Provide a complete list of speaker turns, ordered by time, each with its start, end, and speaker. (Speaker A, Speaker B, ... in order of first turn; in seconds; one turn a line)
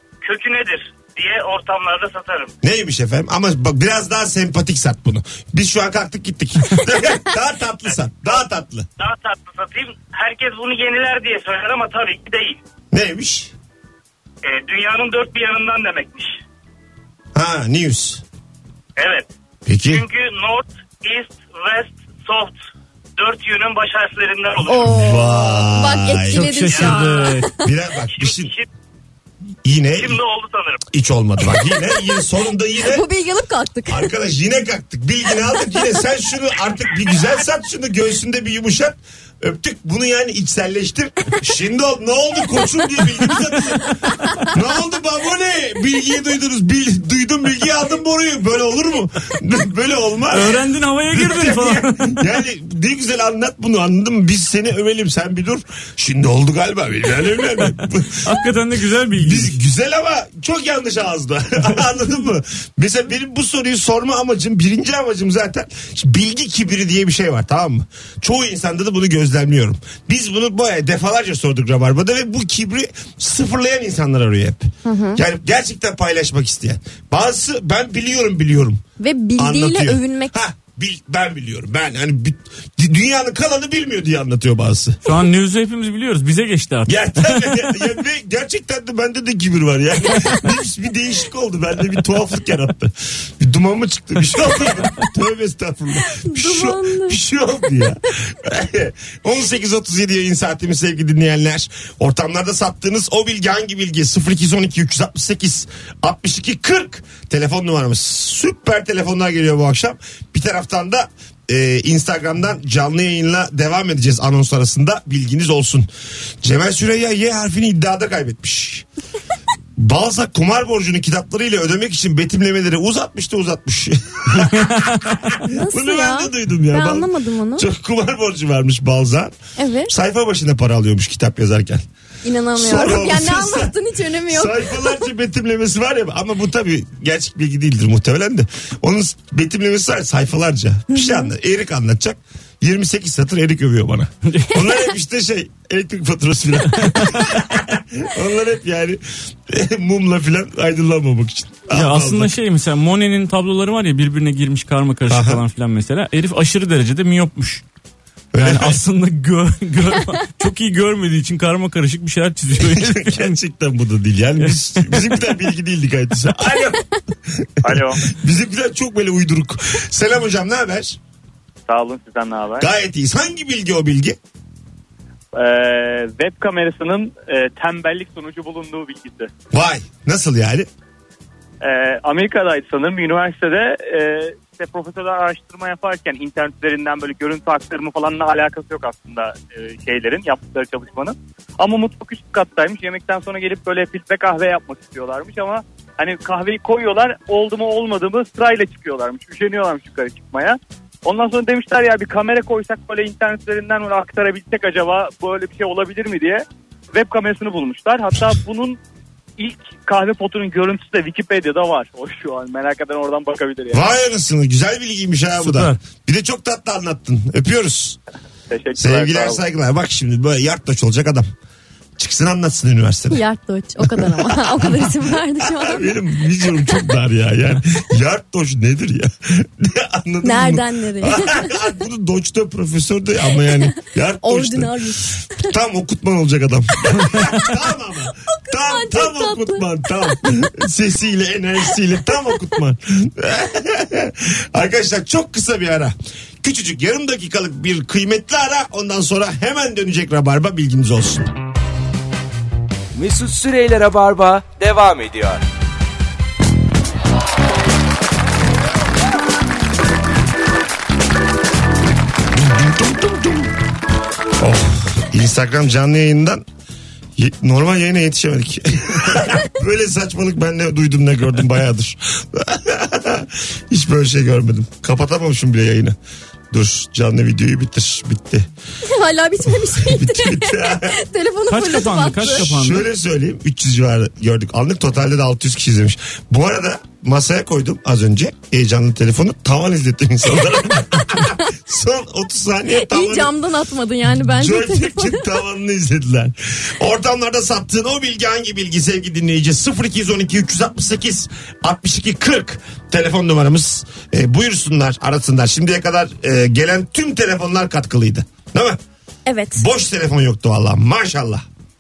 Speaker A: 0.2-2.5
Speaker B: 2.6-8.9
Speaker A: 7.9-8.4
Speaker A: 9.0-12.6
Speaker B: 12.9-13.5
Speaker A: 14.4-16.3
Speaker B: 17.4-18.2
Speaker A: 19.0-19.3
Speaker B: 19.7-20.0
Speaker A: 19.9-22.6
Speaker A: 23.2-25.0
Speaker C: 24.6-27.6
Speaker B: 24.8-27.0
Speaker D: 26.3-27.5
Speaker B: 27.6-28.5
Speaker A: 28.1-28.6
Speaker B: 29.6-30.2
Speaker A: 30.0-30.8
Speaker B: 30.9-33.0
Speaker C: 32.8-34.1
Speaker B: 33.9-58.3
Speaker D: 50.3-52.2
Speaker D: 58.2-59.5
Speaker B: 59.2-78.8
Speaker C: 74.8-75.2
Speaker C: 79.0-80.4
Speaker B: 79.4-85.0
Speaker D: 85.0-87.7
Speaker B: 86.9-115.9
Speaker C: 96.1-97.2
Speaker B: 116.4-118.8
Speaker B: 119.8-129.3
Speaker D: 124.4-125.1
Speaker C: 125.4-127.7
Speaker C: 129.6-129.9
Speaker B: 129.9-131.8
Speaker C: 132.2-135.0
Speaker B: 132.6-133.7
Speaker B: 134.3-152.3
Speaker C: 140.9-141.3
Speaker D: 146.8-147.3
Speaker D: 151.7-157.6
Speaker B: 155.1-155.4
Speaker B: 158.3-158.8
Speaker D: 158.4-163.4
Speaker B: 162.6-171.0
Speaker D: 164.5-165.1
Speaker E: 167.6-168.0
Speaker E: 171.7-172.7
Speaker B: 172.6-174.2
Speaker E: 175.3-179.3
Speaker B: 179.5-180.7
Speaker E: 181.6-208.8
Speaker E: 209.4-213.8
Speaker B: 213.7-218.0
Speaker D: 215.4-215.8
Speaker E: 218.5-219.4
Speaker B: 218.8-221.3
Speaker B: 222.0-223.2
Speaker C: 223.1-225.9
Speaker B: 223.8-234.7
Speaker C: 230.2-231.6
Speaker C: 234.2-235.5
Speaker B: 235.3-251.3
Speaker C: 238.3-240.2
Speaker F: 252.9-255.4
Speaker B: 262.4-263.5
Speaker B: 264.4-266.4
Speaker B: 267.2-276.0
Speaker B: 276.5-278.5
Speaker C: 278.8-282.5
Speaker B: 279.6-281.0
Speaker D: 281.5-282.9
Speaker B: 282.2-293.3
Speaker C: 292.7-295.4
Speaker B: 294.2-308.8
Speaker C: 309.3-309.6
Speaker B: 309.6-311.4